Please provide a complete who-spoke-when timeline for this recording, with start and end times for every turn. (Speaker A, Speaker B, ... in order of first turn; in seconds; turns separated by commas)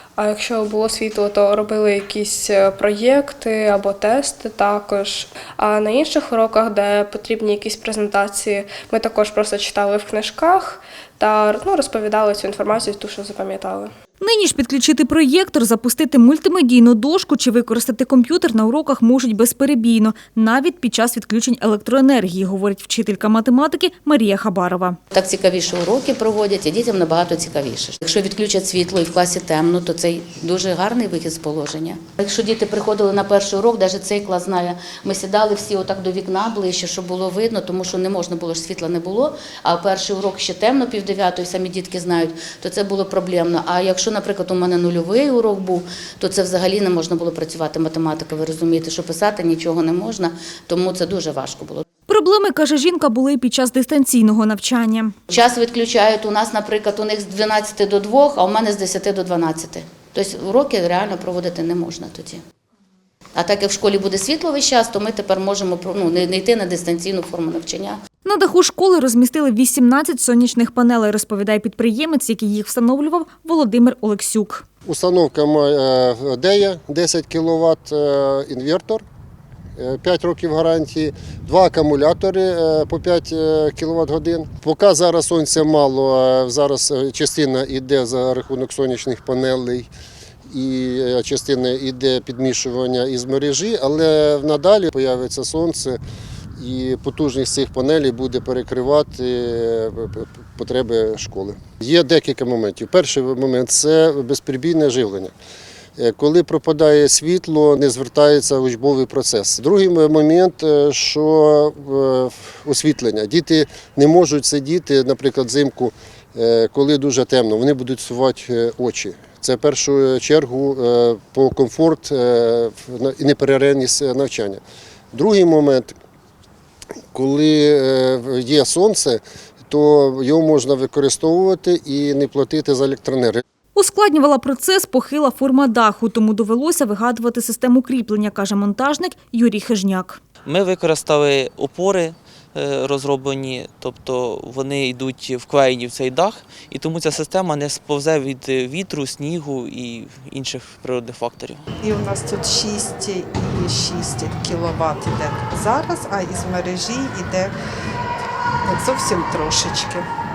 Speaker A: 0.2-13.9, Speaker B: 14.2-25.0, Speaker C: 25.1-51.8, Speaker B: 52.1-55.1, Speaker C: 55.3-62.4, Speaker C: 63.4-68.0, Speaker B: 68.2-74.6, Speaker D: 74.9-79.0, Speaker D: 79.8-89.9, Speaker D: 90.5-96.0, Speaker D: 96.6-105.3, Speaker D: 106.0-124.6, Speaker D: 125.1-126.0, Speaker D: 127.1-133.4, Speaker B: 133.8-140.2, Speaker E: 140.4-151.6, Speaker F: 151.8-157.6, Speaker F: 158.7-160.1